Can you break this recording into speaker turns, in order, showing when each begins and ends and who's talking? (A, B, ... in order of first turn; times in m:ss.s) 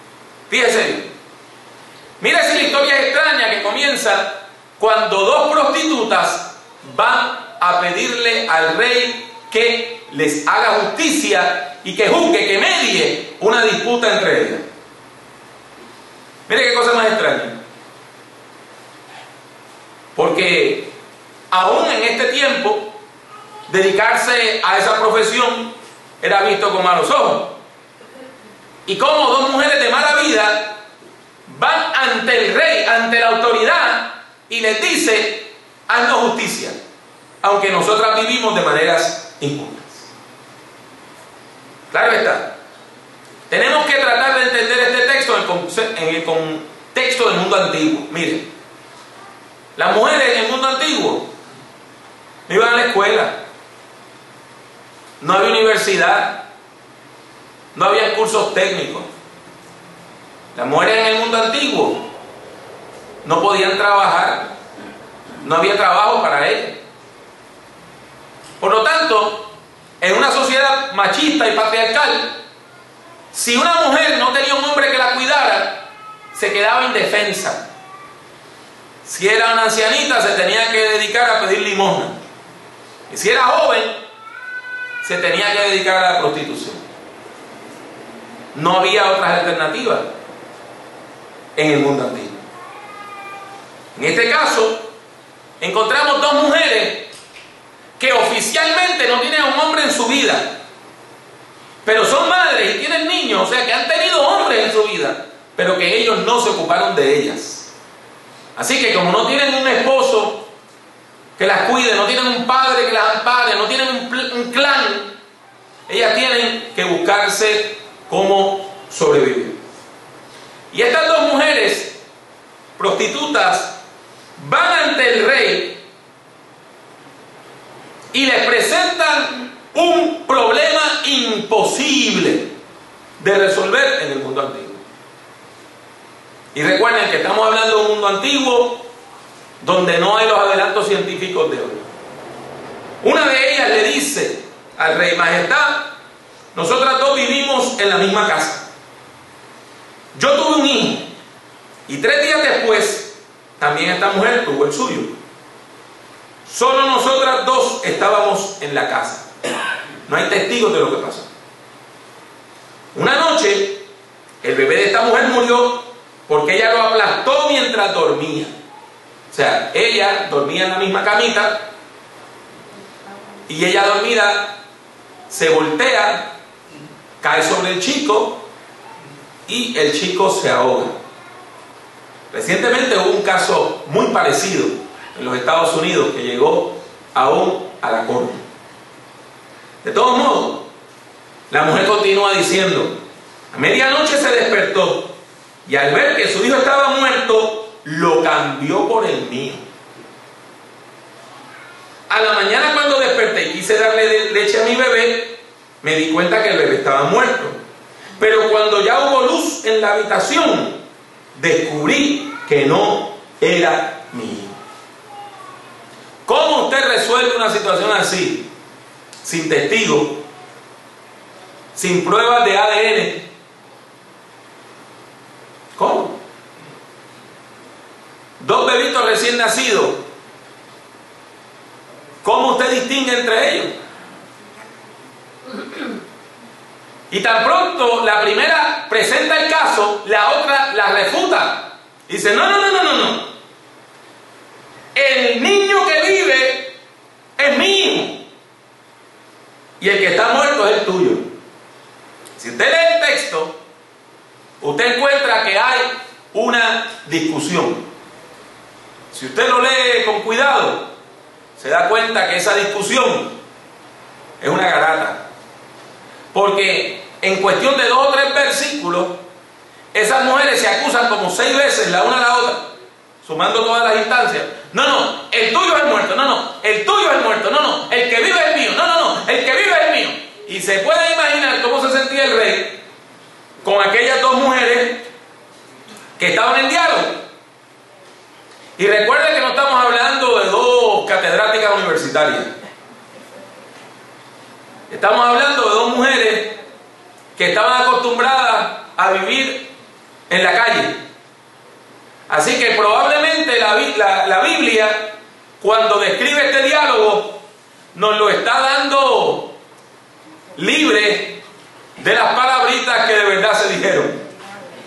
0:00.5-0:01.1 A
0:02.2-0:14.6 A
0:16.5-0:17.5 A
0:20.2-0:20.9 A
0:21.5-0:22.9 A
0:23.7-0:27.5 A
0:28.8-0:30.8 A
0:31.4-0:36.8 A
0:37.4-0:40.1 A
0:41.9-0:42.5 A
0:43.5-0:48.4 A
0:49.8-0:51.3 A
0:52.5-0:53.4 A
0:55.2-0:56.4 A
0:57.7-0:59.1 A
1:00.5-1:02.0 A
1:03.2-1:04.5 A
1:05.4-1:06.8 A
1:08.6-1:09.5 A
1:10.0-1:12.3 A
1:13.3-1:15.8 A
1:16.3-1:17.6 A
1:19.0-1:22.2 A
1:23.1-1:24.0 A
1:25.0-1:26.8 A
1:28.5-1:30.1 A
1:31.6-1:32.4 A
1:33.9-1:34.8 A
1:35.6-1:37.1 A
1:38.0-1:40.5 A
1:41.8-1:47.7 A
1:48.6-1:50.4 A
1:51.4-1:55.1 A
1:55.9-1:59.6 A
2:00.7-2:02.0 A
2:02.8-2:03.8 A
2:04.4-2:05.8 A
2:08.1-2:12.5 A
2:13.2-2:14.8 A
2:16.5-2:18.8 A
2:19.6-2:21.8 A
2:23.0-2:25.9 A
2:26.5-2:28.6 A
2:30.1-2:31.1 A
2:31.9-2:35.1 A
2:36.4-2:39.3 A
2:40.1-2:41.3 A
2:42.9-2:43.8 A
2:44.4-2:48.5 A
2:49.3-2:51.7 A
2:53.5-2:54.6 A
2:55.3-2:56.3 A
2:57.2-2:58.4 A
2:59.5-3:00.9 A
3:02.3-3:08.4 A
3:09.8-3:10.6 A
3:11.5-3:12.9 A
3:13.5-3:15.1 A
3:15.6-3:19.6 A
3:22.1-3:27.6 A
3:28.2-3:30.8 A
3:31.3-3:34.6 A
3:36.2-3:38.5 A
3:39.2-3:40.2 A
3:41.7-3:43.3 A
3:45.8-3:46.2 A
3:48.4-3:50.0 A
3:52.2-3:53.7 A
3:57.1-4:03.3 A
4:04.9-4:06.7 A
4:07.4-4:08.2 A
4:09.8-4:11.2 A
4:12.4-4:13.6 A
4:14.6-4:17.8 A
4:19.1-4:20.8 A
4:21.6-4:23.3 A
4:24.4-4:25.2 A
4:26.3-4:29.2 A
4:29.9-4:32.6 A
4:33.2-4:42.8 A
4:43.6-4:45.0 A
4:46.2-4:47.2 A
4:48.8-4:52.5 A
4:54.9-4:56.5 A
4:57.4-4:59.6 A
5:00.3-5:01.0 A
5:02.3-5:07.4 A
5:07.9-5:09.5 A
5:10.6-5:11.4 A
5:12.0-5:14.2 A